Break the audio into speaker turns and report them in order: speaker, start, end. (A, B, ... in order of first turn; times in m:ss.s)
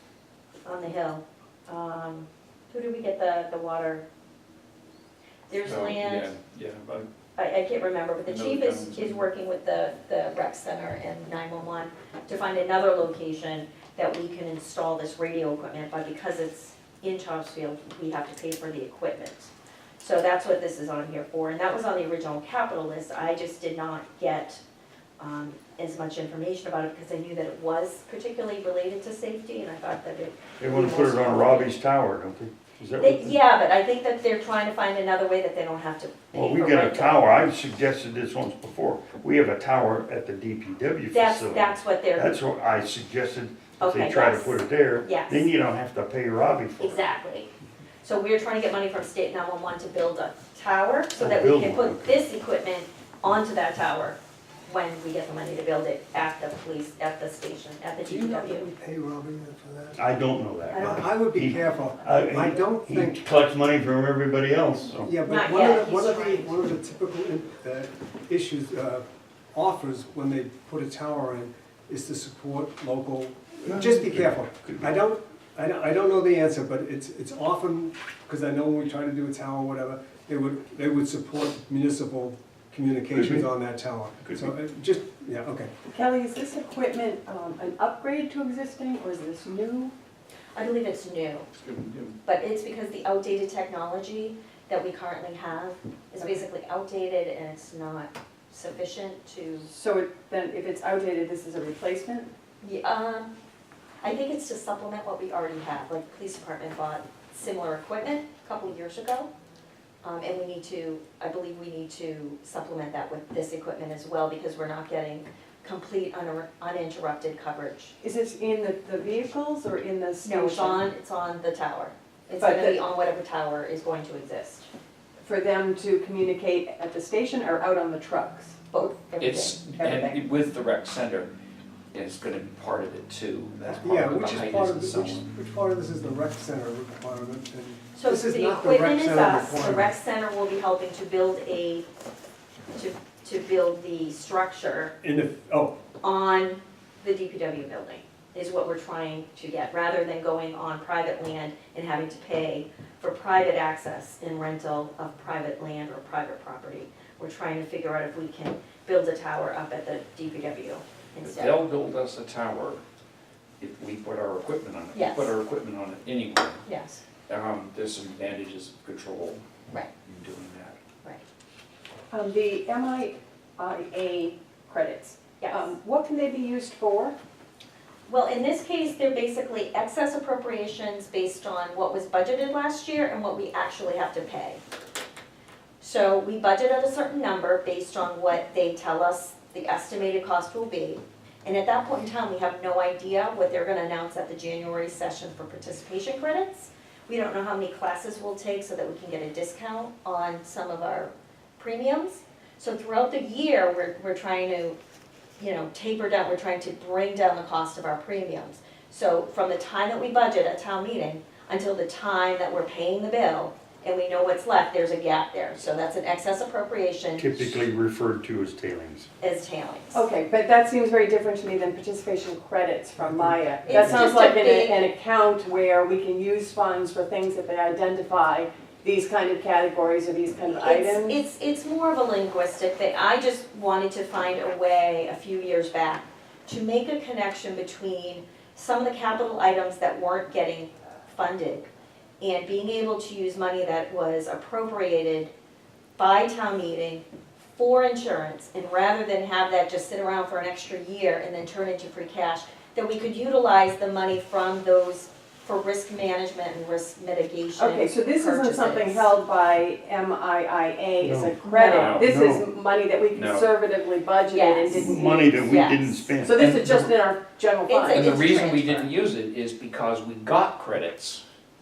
0:00.6-0:04.0 A
0:05.5-0:06.3 A
0:05.5-0:07.1 B
0:07.4-0:24.6 A
0:08.2-0:09.2 B
0:25.2-0:31.7 A
0:30.6-0:33.4 C
0:33.0-0:37.2 A
0:36.3-0:47.1 C
0:41.1-0:42.4 A
0:43.8-0:45.5 A
0:46.8-0:47.5 A
0:48.0-0:58.7 A
0:51.2-0:52.1 C
0:58.0-1:00.0 D
1:00.0-1:05.1 C
1:00.7-1:01.1 A
1:00.8-1:03.2 D
1:05.0-1:25.7 D
1:05.3-1:06.6 A
1:13.6-1:14.9 C
1:23.1-1:23.4 C
1:25.9-1:29.9 E
1:30.5-1:31.5 A
1:31.6-1:32.1 B
1:32.2-1:39.7 A
1:39.6-1:42.3 E
1:42.6-1:43.3 A
1:44.0-1:49.3 A
1:50.0-1:57.9 A
1:58.0-2:00.8 E
2:00.2-2:04.7 A
2:02.4-2:02.8 E
2:05.2-2:10.2 E
2:08.7-2:09.5 A
2:09.2-2:11.3 B
2:11.9-2:15.3 B
2:13.8-2:19.9 D
2:17.9-2:21.8 A
2:22.7-2:24.9 A
2:25.0-2:25.8 D
2:26.0-2:41.6 A
2:41.2-2:42.8 B
2:43.6-2:46.6 B
2:44.9-2:45.3 A
2:46.6-2:47.0 A
2:47.3-2:49.4 B
2:50.0-2:50.8 B
2:52.1-2:57.2 E
2:55.4-2:55.7 A
2:58.1-3:04.6 A
3:05.8-3:24.8 A
3:25.4-3:37.6 A
3:37.2-3:39.1 C
3:39.2-3:40.1 A
3:39.9-3:51.2 E
3:43.6-3:44.8 A
3:50.5-4:05.3 A
4:06.0-4:19.1 A
4:17.6-4:25.5 E
4:21.0-4:21.5 C
4:21.4-4:22.0 A
4:21.6-4:22.1 B
4:22.0-4:22.5 C
4:23.1-4:23.5 B
4:24.3-4:26.2 A
4:24.7-4:26.9 C
4:26.2-4:28.2 E
4:27.7-4:28.9 A
4:27.9-4:31.2 B